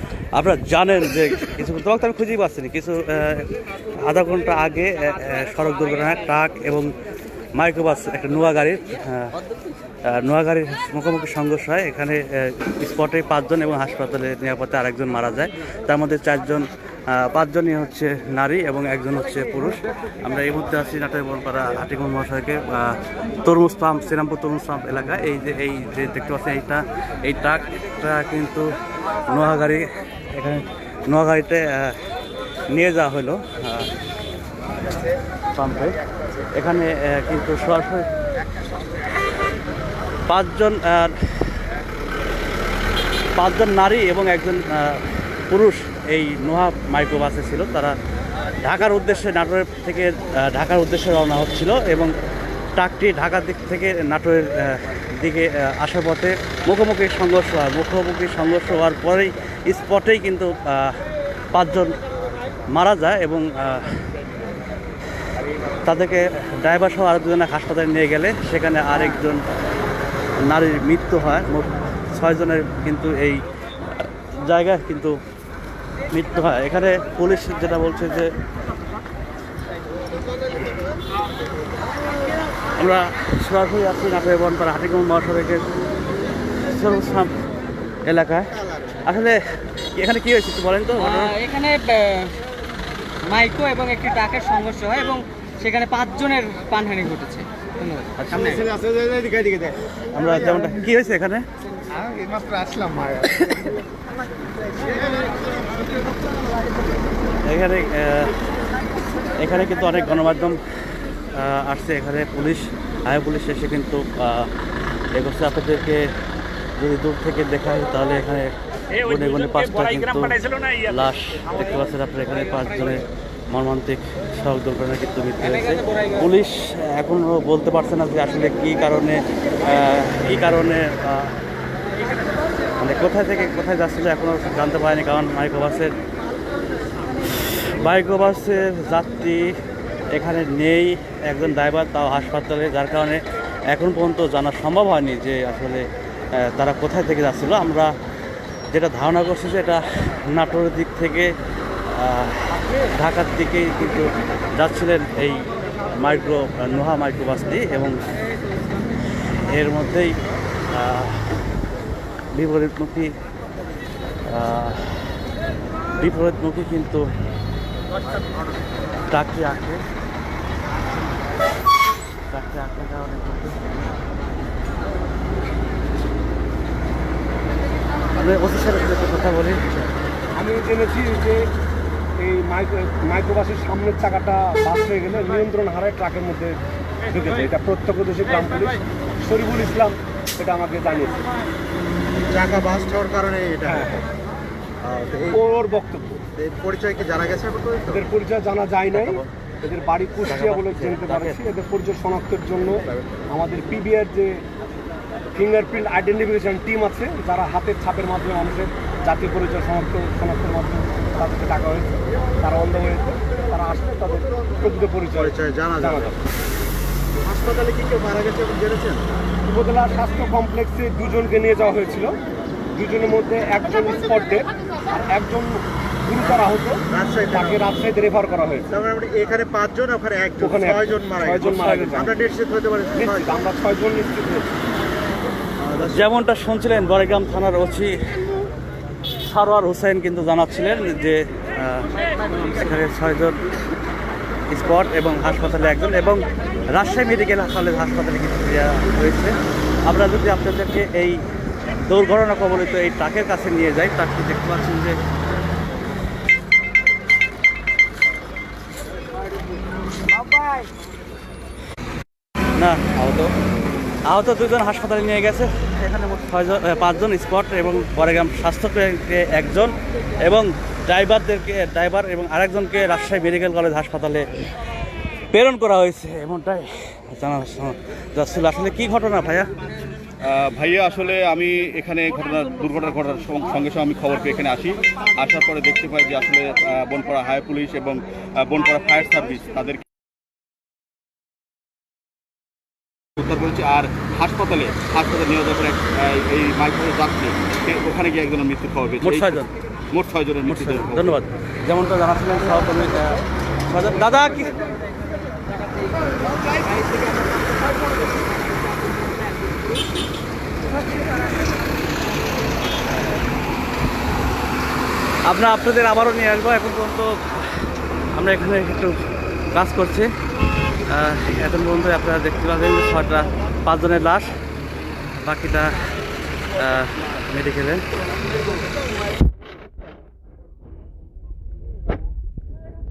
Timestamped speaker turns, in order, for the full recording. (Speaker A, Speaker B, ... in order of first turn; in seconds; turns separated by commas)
Speaker A: 0.3-6.9, Speaker A: 7.6-9.4, Speaker A: 10.1-28.7, Speaker A: 29.3-32.0, Speaker A: 32.7-33.9, Speaker A: 35.5-36.0, Speaker A: 36.5-38.1, Speaker A: 40.3-41.5, Speaker A: 43.4-48.0, Speaker A: 48.6-52.1, Speaker A: 52.8-61.0, Speaker A: 61.5-62.0, Speaker A: 62.7-64.0, Speaker A: 65.8-69.4, Speaker A: 70.5-73.4, Speaker A: 74.4-75.2, Speaker A: 76.1-78.3, Speaker A: 82.8-85.7, Speaker A: 86.6-87.3, Speaker A: 88.1-88.5, Speaker A: 89.0-91.3, Speaker B: 91.0-92.4, Speaker B: 93.3-98.7, Speaker A: 98.2-98.6, Speaker C: 98.4-99.9, Speaker A: 100.1-101.4, Speaker C: 101.9-103.7, Speaker C: 105.2-105.4, Speaker A: 107.5-108.3, Speaker A: 109.4-110.6, Speaker A: 111.3-114.5, Speaker A: 115.2-116.1, Speaker A: 116.8-131.3, Speaker A: 132.8-135.9, Speaker A: 137.5-139.6, Speaker A: 140.1-147.9, Speaker A: 148.7-151.3, Speaker A: 151.9-158.0, Speaker A: 159.2-160.1, Speaker A: 160.7-161.3, Speaker A: 162.3-163.1, Speaker A: 164.3-165.2, Speaker A: 166.0-167.1, Speaker A: 169.1-169.8, Speaker A: 172.3-173.7, Speaker A: 178.1-179.8, Speaker D: 180.3-181.5, Speaker D: 182.2-186.6, Speaker D: 187.1-191.2, Speaker C: 192.3-194.0, Speaker D: 193.7-194.0, Speaker C: 194.8-195.4, Speaker D: 195.3-196.2, Speaker C: 196.4-198.0, Speaker D: 197.9-204.4, Speaker A: 198.9-199.3, Speaker A: 200.2-201.4, Speaker D: 205.3-216.2, Speaker C: 215.2-216.1, Speaker C: 217.2-219.1, Speaker D: 219.5-222.2, Speaker D: 222.8-228.8, Speaker C: 226.9-227.6, Speaker C: 228.7-233.4, Speaker D: 230.4-232.2, Speaker D: 232.9-234.5, Speaker C: 235.6-236.1, Speaker A: 235.8-238.0, Speaker A: 239.2-243.4, Speaker A: 244.5-249.3, Speaker A: 249.8-251.2, Speaker A: 251.8-255.0, Speaker A: 262.6-263.3, Speaker A: 264.1-274.3, Speaker A: 275.3-279.5, Speaker E: 280.2-289.8, Speaker E: 293.2-301.2, Speaker A: 299.0-299.5, Speaker A: 300.5-304.5, Speaker A: 315.3-317.5, Speaker A: 318.1-318.9, Speaker A: 319.5-320.1, Speaker A: 320.9-324.3, Speaker A: 325.2-325.8, Speaker A: 326.6-327.8